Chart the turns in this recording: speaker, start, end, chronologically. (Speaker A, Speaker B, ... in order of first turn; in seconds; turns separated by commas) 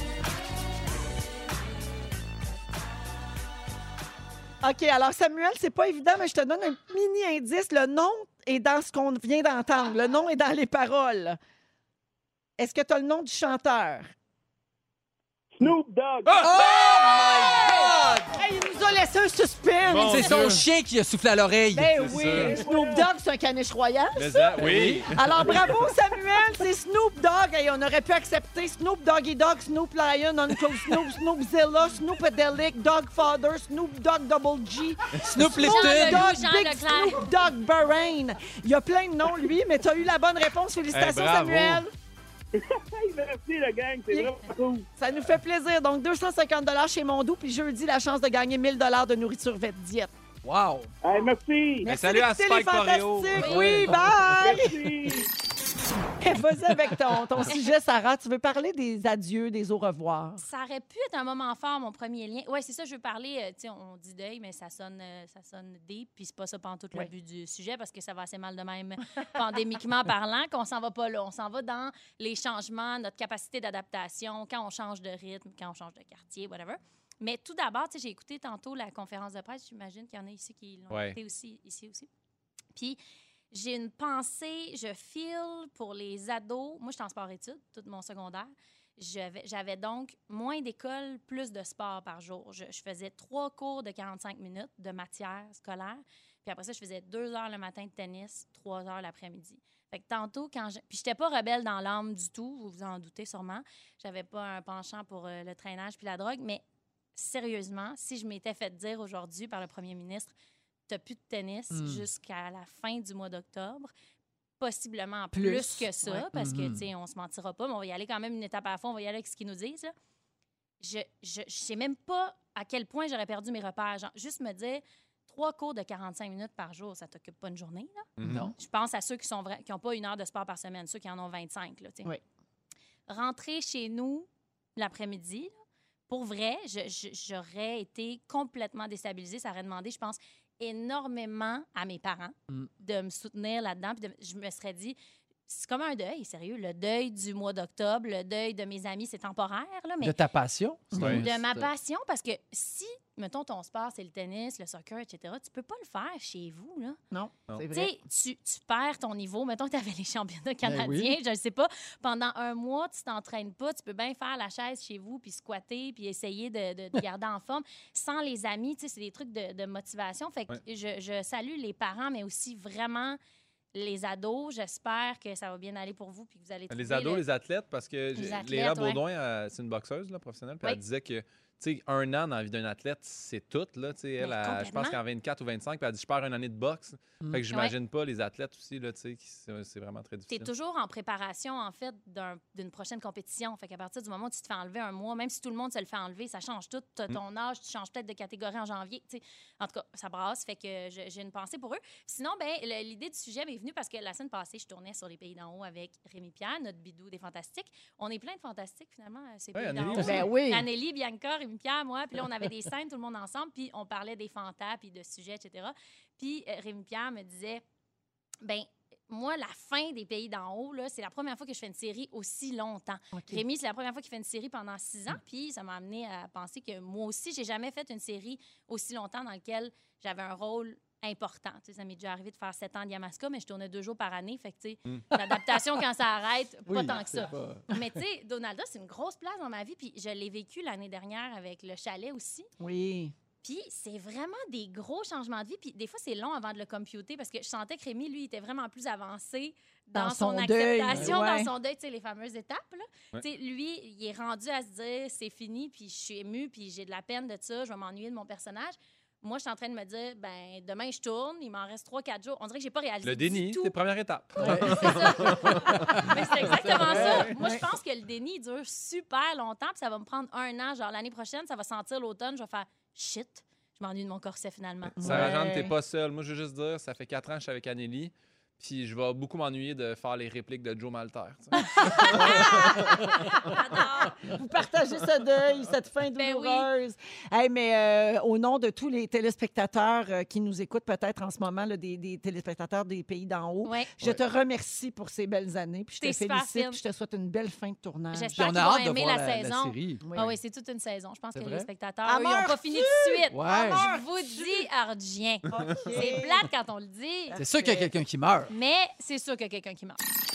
Speaker A: 4.6-11.4, Speaker A: 12.6-14.1, Speaker B: 15.6-16.4, Speaker C: 16.3-18.3, Speaker A: 16.4-20.5, Speaker D: 19.8-20.6, Speaker C: 20.1-22.4, Speaker A: 21.7-41.9, Speaker D: 22.0-22.6, Speaker B: 22.4-23.1, Speaker D: 24.1-25.8, Speaker C: 24.6-25.6, Speaker C: 35.2-36.3, Speaker E: 35.5-37.2, Speaker D: 40.9-41.8, Speaker B: 42.5-44.9, Speaker A: 45.0-50.1, Speaker C: 50.4-50.9, Speaker B: 51.0-51.9, Speaker A: 51.8-55.3, Speaker D: 51.8-54.3, Speaker E: 53.4-53.9, Speaker B: 54.4-55.3, Speaker A: 56.2-60.4, Speaker E: 60.4-82.1, Speaker D: 80.9-81.2, Speaker E: 83.5-106.6, Speaker E: 107.1-110.3, Speaker E: 110.9-113.9, Speaker C: 111.7-112.0, Speaker E: 114.6-119.9, Speaker A: 115.3-116.0, Speaker C: 116.3-116.9, Speaker E: 120.8-128.1, Speaker D: 128.2-128.5, Speaker C: 128.2-128.5, Speaker E: 128.6-132.1, Speaker E: 133.1-135.5, Speaker E: 136.1-144.9, Speaker E: 145.5-150.2, Speaker C: 150.0-151.7, Speaker E: 150.9-157.0, Speaker D: 151.0-151.2, Speaker A: 157.1-157.9, Speaker E: 157.7-173.2, Speaker C: 160.6-161.2, Speaker E: 173.7-177.2, Speaker D: 176.7-190.5, Speaker E: 178.2-179.0, Speaker E: 184.2-185.0, Speaker E: 190.3-217.6, Speaker D: 209.5-210.3, Speaker A: 210.0-210.7, Speaker E: 218.4-242.5, Speaker A: 223.1-223.4, Speaker C: 235.1-235.6, Speaker C: 236.7-237.7, Speaker A: 242.6-243.1, Speaker E: 243.4-263.7, Speaker A: 249.9-251.5, Speaker D: 263.0-266.1, Speaker A: 264.4-264.7, Speaker C: 264.4-265.1, Speaker E: 264.4-275.1, Speaker C: 265.8-266.1, Speaker D: 266.6-267.3, Speaker A: 266.9-267.6, Speaker A: 275.0-275.7, Speaker D: 275.0-283.1, Speaker E: 281.8-284.2, Speaker A: 281.8-283.4, Speaker A: 284.2-298.5, Speaker E: 286.1-286.7, Speaker E: 293.6-293.9, Speaker E: 296.0-296.8, Speaker E: 298.1-307.4, Speaker C: 298.3-300.1, Speaker A: 300.0-300.3, Speaker C: 301.3-301.7, Speaker A: 302.0-304.6, Speaker C: 303.3-303.9, Speaker A: 305.5-306.5, Speaker A: 307.3-307.9, Speaker C: 307.4-308.5, Speaker E: 308.5-310.0